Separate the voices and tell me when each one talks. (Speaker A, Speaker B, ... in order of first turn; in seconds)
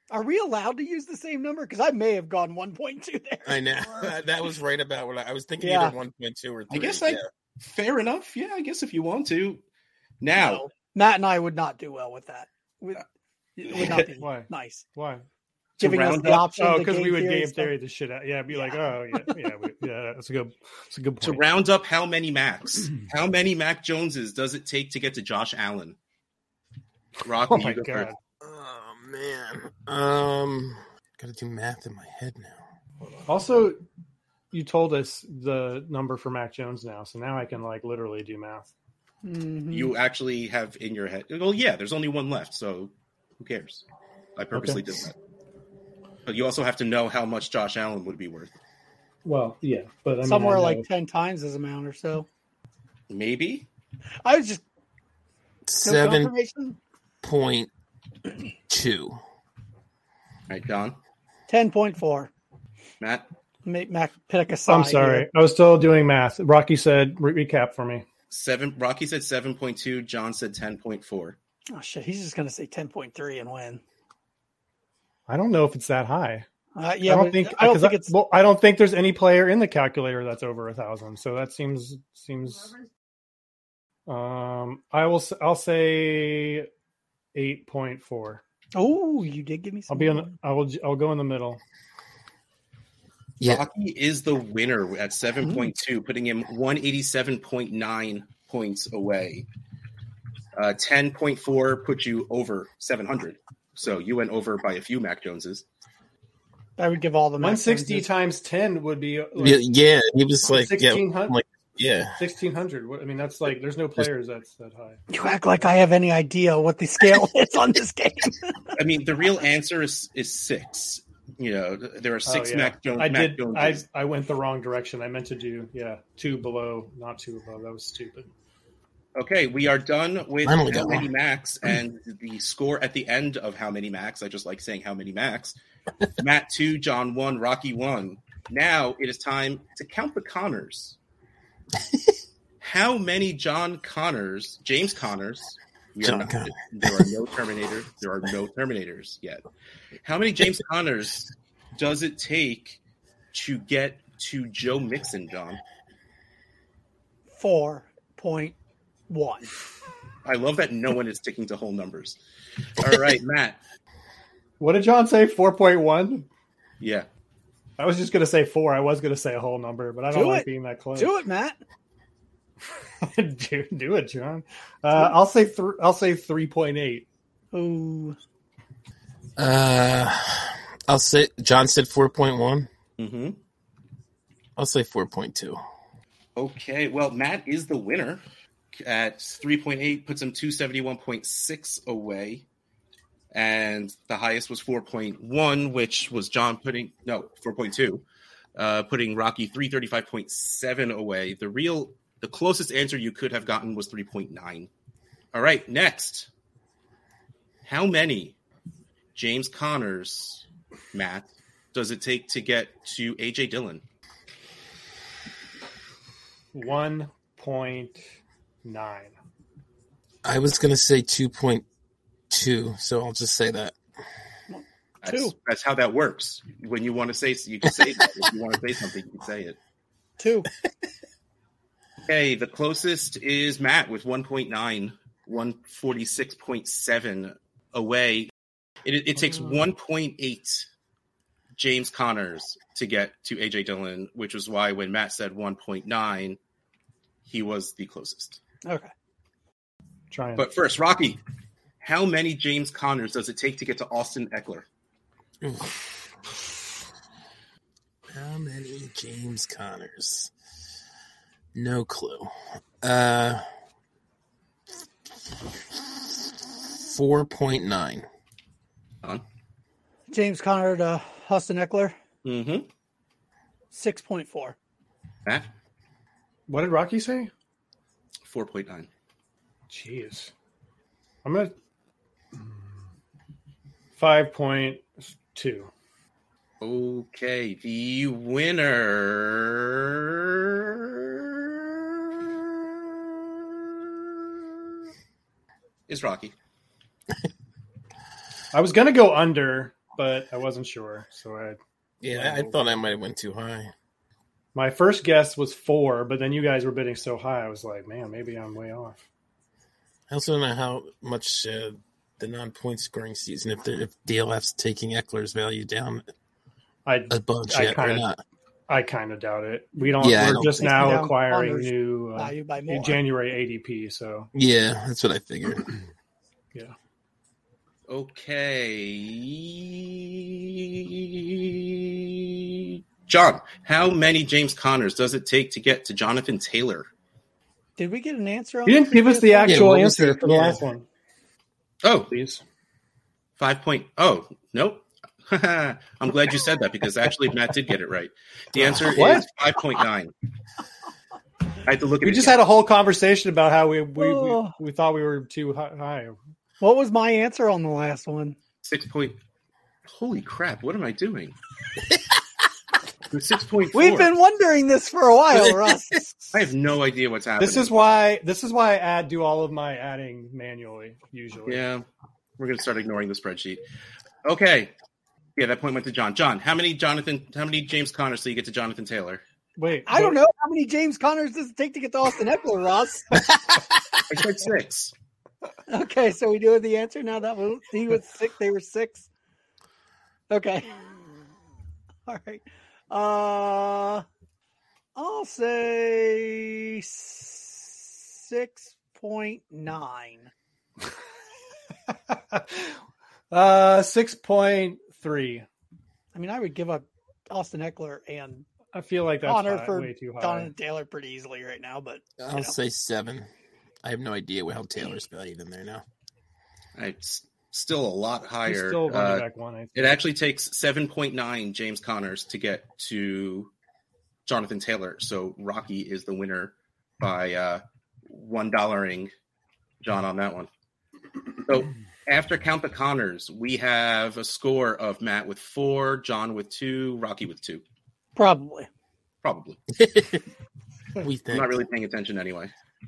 Speaker A: 0.1-4.1, 5.6-6.0, 10.3-13.0, 13.6-14.9, 15.8-17.7, 18.5-18.8, 39.2-39.9, 50.2-52.3, 54.2-54.6, 55.8-56.8, 61.5-62.3, 63.6-65.3, 71.7-73.8, 76.8-78.1, 88.7-90.3, 106.8-108.1, 115.1-118.7, 157.4-158.6, 159.1-159.5, 170.1-171.6, 177.5-178.2, 224.5-225.3, 230.2-230.5, 248.7-248.9, 270.1-272.0, 273.7-274.6, 320.3-323.0, 337.8-339.7, 354.0-354.5, 356.6-358.4, 363.7-366.4, 379.9-383.1, 385.7-389.1, 390.3-391.1, 392.1-394.1, 395.0-400.3, 406.1-408.5, 409.2-412.6, 438.2-438.7
Speaker B: 3.5-7.3, 28.4-32.6, 55.7-56.3, 57.2-57.7, 58.7-59.2, 93.4-93.7, 109.4-112.2, 130.4-131.1, 141.8-142.1, 146.0-147.1, 179.4-182.7, 184.6-185.6, 220.2-221.7, 222.3-223.8, 255.4-255.8, 258.1-260.3, 261.5-263.4, 266.6-268.1, 302.0-303.7, 310.1-316.1, 317.1-318.2, 320.0-321.1, 324.3-325.7, 339.4-340.6, 412.2-413.3, 413.8-415.8, 439.7-440.2, 441.0-441.5
Speaker C: 6.7-9.6, 10.2-10.7, 15.8-16.5, 21.2-26.0, 27.2-28.1, 39.7-43.8, 44.4-45.2, 46.3-48.5, 53.1-53.7, 60.5-61.0, 63.0-63.3, 68.3-71.4, 93.4-99.5, 100.6-105.7, 118.7-123.8, 129.2-135.6, 136.2-141.0, 142.6-149.4, 150.0-152.8, 153.3-155.6, 160.2-162.2, 162.8-163.6, 166.8-167.1, 183.0-183.4, 186.4-188.2, 188.7-192.4, 193.3-198.1, 198.6-204.7, 205.3-206.3, 207.6-208.4, 209.2-213.8, 225.0-229.6, 232.1-238.3, 238.8-240.7, 241.6-246.4, 247.2-248.4, 250.4-251.2, 251.8-254.7, 272.2-272.7, 278.2-278.9, 286.6-292.6, 295.9-296.4, 327.9-336.9, 341.8-342.1, 343.4-350.1, 351.6-352.4, 358.6-359.2, 359.9-361.4, 363.1-364.1, 366.3-367.7, 371.5-371.9, 372.4-373.6, 374.2-374.7, 375.4-379.2, 384.1-384.9, 416.8-423.5, 424.3-429.1, 429.8-430.5, 431.4-437.6, 439.2-439.6, 441.3-442.5
Speaker D: 14.2-15.3, 16.4-21.4, 27.5-28.2, 33.3-33.8, 34.5-38.7, 44.5-44.8, 49.2-50.9, 64.7-68.0, 75.3-76.5, 77.0-82.7, 84.1-86.7, 87.3-88.4, 89.9-91.6, 107.4-109.6, 110.5-111.4, 112.2-115.0, 122.3-128.3, 164.6-166.3, 167.8-171.1, 173.0-177.1, 216.5-218.0, 218.6-219.2, 250.1-250.5, 276.5-277.3, 279.7-280.3, 281.2-281.5, 282.4-282.8, 284.0-285.7, 298.5-301.6, 302.1-302.6, 304.6-309.0, 316.9-318.1, 318.7-324.3, 338.7-340.9, 342.1-342.4, 348.6-349.3, 352.0-356.2, 367.4-371.6, 379.6-380.2, 402.1-402.8, 403.3-405.5, 408.7-410.5, 418.5-420.0